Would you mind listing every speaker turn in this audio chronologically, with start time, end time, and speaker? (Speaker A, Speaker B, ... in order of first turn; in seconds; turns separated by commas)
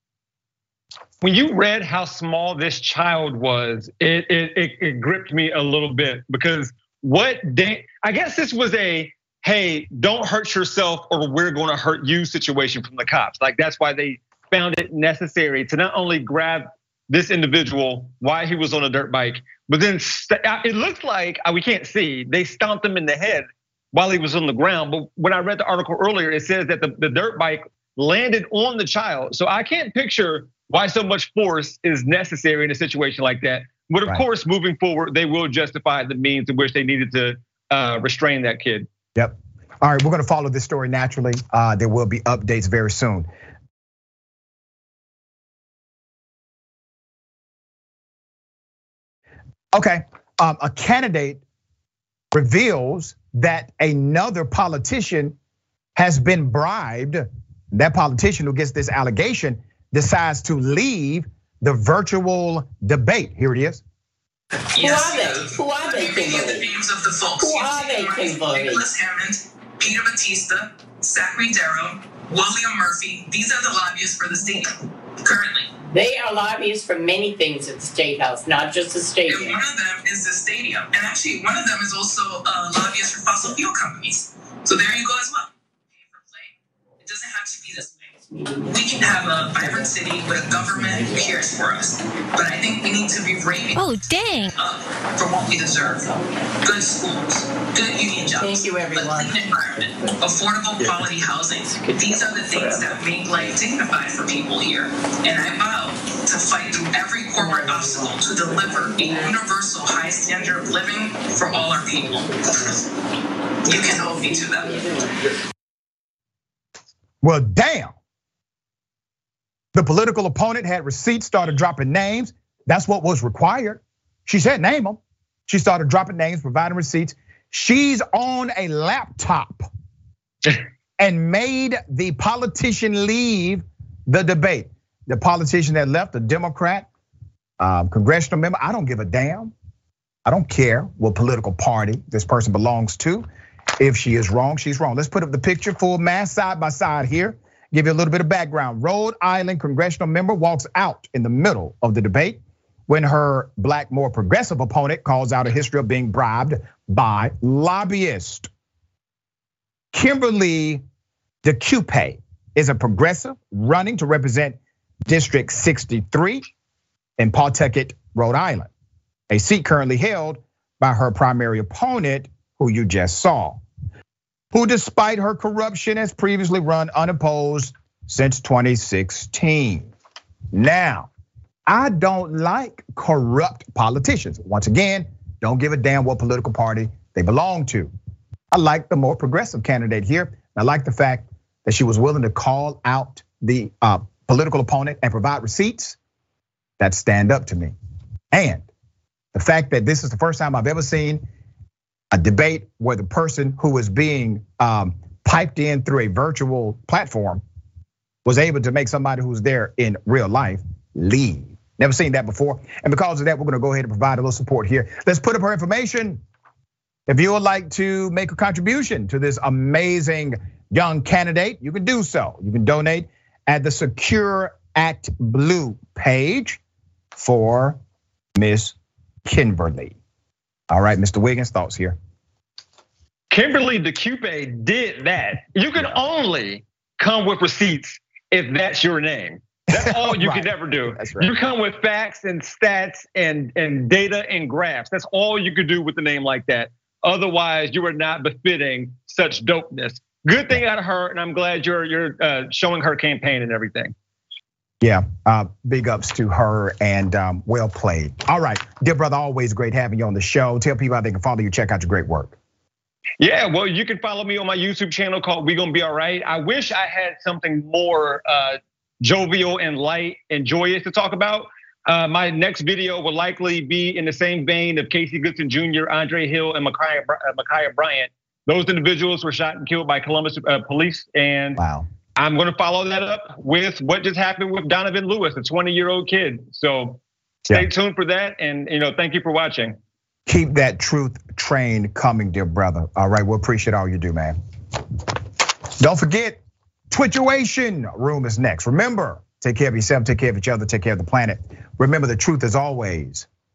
Speaker A: 1.2-38.9, Speaker B: 39.2-43.3, Speaker B: 49.7-51.4, Speaker B: 52.3-55.4, Speaker B: 56.0-63.8, Speaker C: 64.7-66.7, Speaker D: 64.8-75.7, Speaker C: 67.4-68.9, Speaker C: 75.9-79.6, Speaker D: 79.2-87.9, Speaker C: 88.3-89.9, Speaker D: 88.7-96.1, Speaker C: 90.9-91.4, Speaker C: 95.9-96.6, Speaker D: 96.6-112.9, Speaker C: 98.4-100.2, Speaker C: 101.7-103.0, Speaker D: 113.7-114.8, Speaker C: 113.8-114.9, Speaker B: 117.2-118.0, Speaker B: 119.8-129.7, Speaker B: 131.0-136.9, Speaker B: 137.6-139.5, Speaker B: 140.3-143.3, Speaker B: 143.8-158.5, Speaker B: 159.9-160.8, Speaker B: 161.4-166.4, Speaker B: 167.2-168.7, Speaker B: 169.3-173.6, Speaker B: 174.5-179.9, Speaker B: 180.5-181.1, Speaker B: 181.7-187.9, Speaker B: 188.5-196.0, Speaker B: 196.8-197.7, Speaker B: 198.3-198.7, Speaker B: 199.3-201.2, Speaker B: 202.1-207.4, Speaker B: 208.2-216.2, Speaker B: 217.1-226.6, Speaker B: 227.2-227.8, Speaker B: 228.4-228.8, Speaker B: 229.3-230.0, Speaker B: 230.7-232.0, Speaker A: 233.3-253.9, Speaker B: 239.7-241.3, Speaker B: 254.8-262.4, Speaker A: 263.2-281.6, Speaker B: 281.6-281.9, Speaker A: 282.2-287.0, Speaker A: 287.5-289.8, Speaker B: 290.3-294.4, Speaker B: 295.8-303.3